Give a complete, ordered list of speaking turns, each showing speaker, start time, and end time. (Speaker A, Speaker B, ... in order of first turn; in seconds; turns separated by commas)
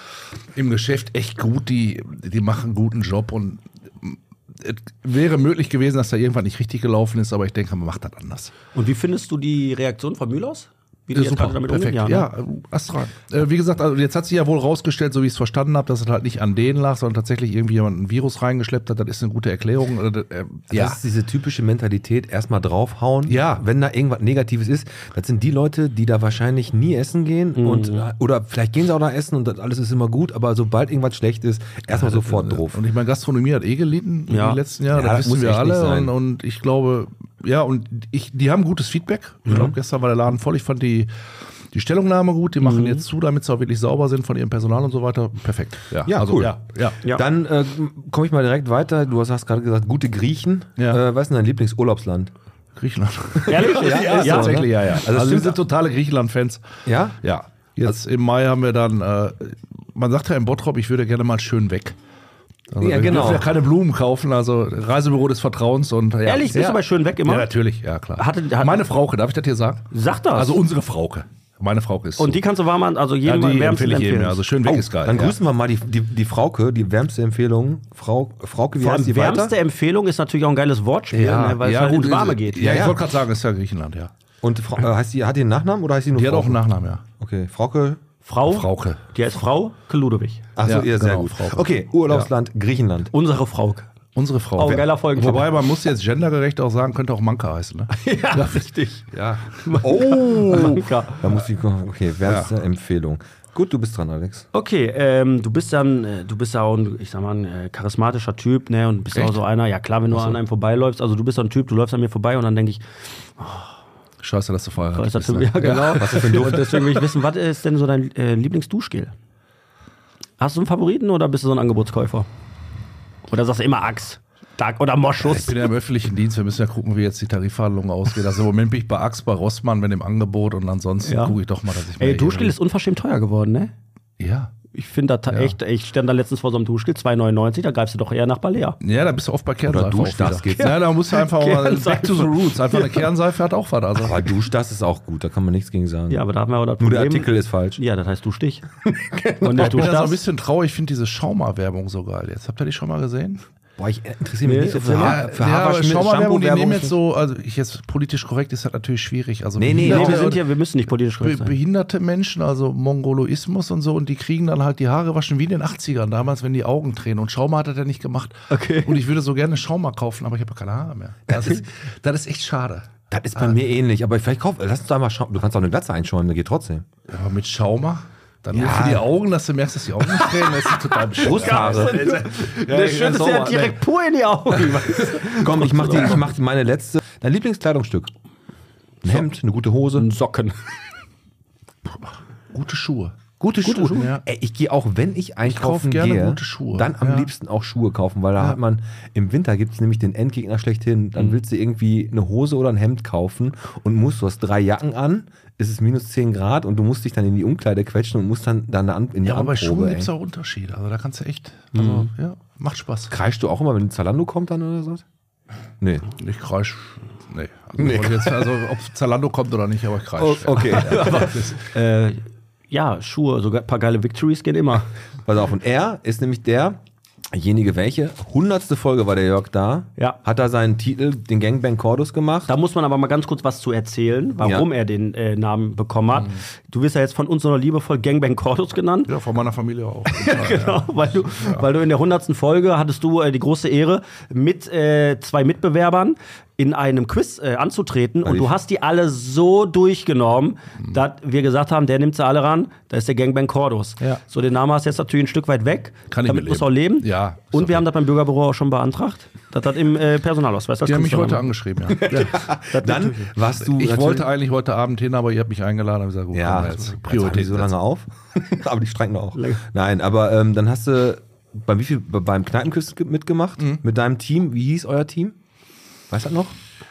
Speaker A: 0.5-8.5, Speaker B: 8.7-12.3, Speaker A: 11.1-21.0, Speaker C: 20.7-32.8, Speaker A: 23.3-23.6, Speaker B: 27.5-28.1, Speaker A: 31.9-41.1, Speaker B: 34.3-34.6, Speaker C: 34.9-36.1, Speaker C: 39.5-39.8, Speaker A: 41.7-47.0, Speaker B: 42.6-43.0, Speaker C: 46.0-52.3, Speaker A: 52.8-56.6, Speaker B: 53.5-54.7, Speaker C: 53.5-55.6, Speaker C: 56.9-57.2, Speaker A: 57.2-62.0, Speaker A: 62.7-72.4, Speaker C: 62.8-63.5, Speaker B: 66.2-67.5, Speaker B: 68.2-68.8, Speaker B: 69.9-70.6, Speaker B: 72.2-74.4, Speaker A: 73.2-75.3, Speaker C: 74.6-79.5, Speaker B: 78.8-82.9, Speaker A: 81.1-84.1, Speaker C: 82.6-83.0, Speaker C: 84.4-86.6, Speaker A: 86.1-87.0, Speaker C: 87.2-88.0, Speaker B: 88.2-90.5, Speaker A: 88.5-89.0, Speaker C: 90.5-93.1, Speaker A: 90.6-92.3, Speaker B: 93.1-93.9, Speaker A: 94.1-100.7, Speaker B: 94.5-95.5, Speaker B: 97.9-101.2, Speaker C: 99.8-104.5, Speaker A: 102.2-102.5, Speaker B: 104.5-112.8, Speaker A: 109.1-109.4, Speaker A: 110.1-110.4, Speaker B: 113.4-113.7, Speaker A: 114.2-116.6, Speaker B: 115.0-119.1, Speaker C: 115.8-117.0, Speaker B: 120.4-122.3, Speaker B: 123.3-125.6, Speaker A: 125.2-132.6, Speaker B: 131.0-131.4, Speaker B: 132.0-133.7, Speaker A: 134.2-134.5, Speaker B: 134.7-138.8, Speaker A: 138.8-144.2, Speaker C: 139.7-140.9, Speaker B: 140.6-143.1, Speaker C: 143.9-146.2, Speaker B: 146.1-148.7, Speaker C: 146.8-147.8, Speaker C: 149.1-150.0, Speaker B: 149.2-150.2, Speaker A: 149.6-153.4, Speaker C: 153.8-156.9, Speaker B: 154.4-155.2, Speaker A: 154.9-160.4, Speaker C: 159.6-160.4, Speaker B: 159.8-161.6, Speaker A: 161.2-173.6, Speaker B: 168.5-169.0, Speaker C: 173.1-176.8, Speaker A: 177.1-183.5, Speaker C: 178.5-179.1, Speaker B: 181.1-186.3, Speaker C: 181.2-182.1, Speaker C: 182.7-183.8, Speaker C: 185.0-188.1, Speaker C: 189.0-190.1, Speaker B: 190.0-190.7, Speaker A: 191.9-193.2, Speaker C: 193.4-210.1, Speaker B: 193.6-194.1, Speaker A: 193.9-194.2, Speaker A: 195.4-197.3, Speaker A: 209.2-213.1, Speaker B: 211.8-212.0, Speaker C: 213.1-215.0, Speaker C: 215.8-216.1, Speaker A: 216.2-221.7, Speaker C: 217.8-218.5, Speaker C: 220.2-221.3, Speaker B: 220.7-224.9, Speaker C: 225.2-226.8, Speaker C: 227.3-232.5, Speaker B: 232.5-239.1, Speaker C: 234.4-234.7, Speaker A: 239.1-241.7, Speaker B: 240.1-263.3, Speaker C: 248.2-248.5, Speaker A: 256.1-257.8, Speaker A: 260.8-262.5, Speaker C: 262.1-264.3, Speaker A: 263.6-267.7, Speaker C: 266.3-275.4, Speaker B: 269.3-269.6, Speaker C: 276.1-276.6